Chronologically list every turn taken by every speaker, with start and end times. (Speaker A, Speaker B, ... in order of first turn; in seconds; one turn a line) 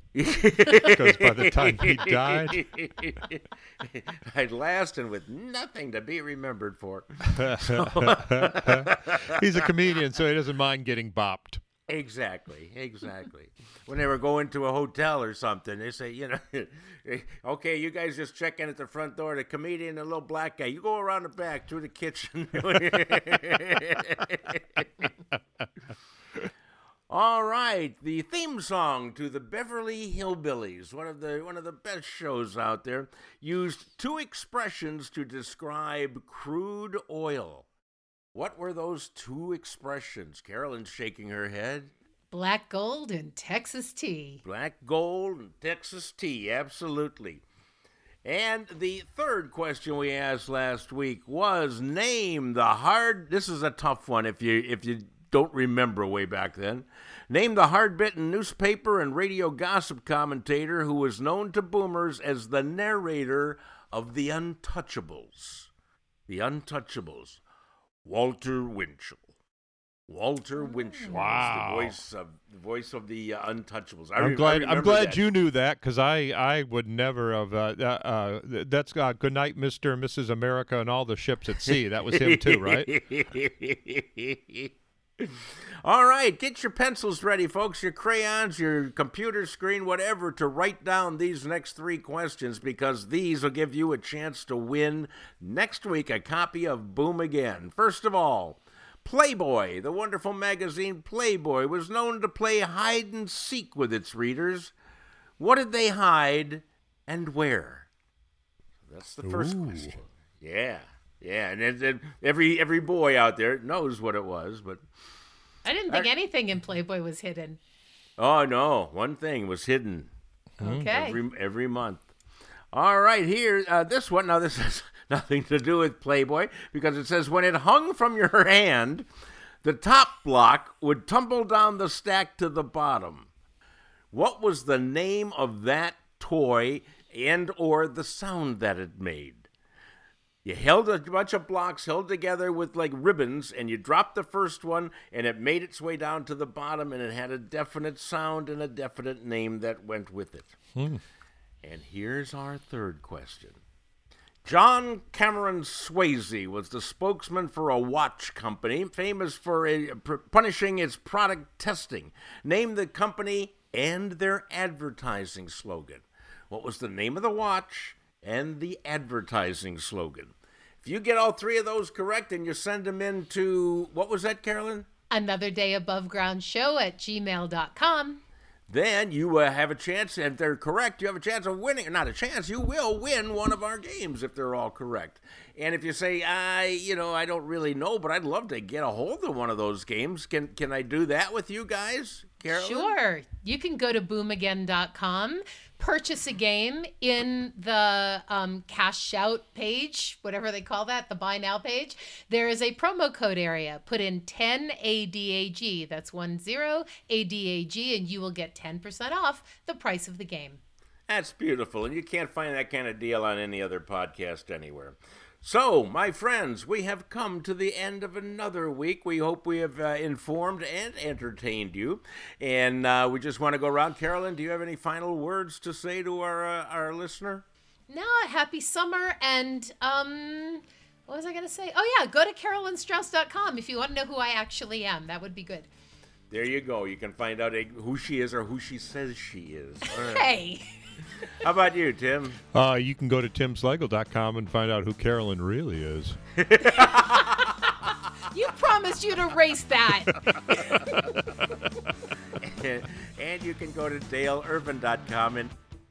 Speaker A: 0.1-9.7
Speaker B: 0.8-2.6
Speaker B: 7.4-11.6
Speaker A: 11.9-25.1
Speaker A: 27.1-37.7
Speaker A: 38.3-41.9
Speaker C: 42.3-44.4
Speaker A: 44.4-47.4
Speaker A: 48.2-65.7
Speaker A: 66.3-67.4
Speaker A: 68.0-69.2
Speaker A: 70.1-75.2
Speaker C: 70.7-71.2
Speaker B: 71.1-72.0
Speaker B: 74.2-82.9
Speaker A: 81.7-104.7
Speaker A: 105.4-107.9
Speaker A: 108.9-114.8
Speaker B: 109.2-110.0
Speaker C: 115.7-117.6
Speaker A: 118.2-120.1
Speaker B: 120.6-120.9
Speaker C: 120.6-121.2
Speaker A: 120.9-122.1
Speaker A: 122.7-129.1
Speaker A: 129.6-133.3
Speaker A: 134.1-139.5
Speaker A: 140.4-150.5
Speaker B: 150.8-151.0
Speaker A: 151.6-153.6
Speaker A: 154.4-174.9
Speaker C: 175.1-178.2
Speaker A: 178.7-192.9
Speaker C: 192.5-210.6
Speaker A: 211.1-227.4
Speaker C: 227.9-235.7
Speaker A: 236.3-240.3
Speaker C: 239.9-240.7
Speaker A: 241.3-242.4
Speaker B: 242.5-246.2
Speaker A: 246.4-247.6
Speaker C: 246.8-251.1
Speaker A: 250.3-251.0
Speaker B: 251.2-251.4
Speaker A: 252.4-255.5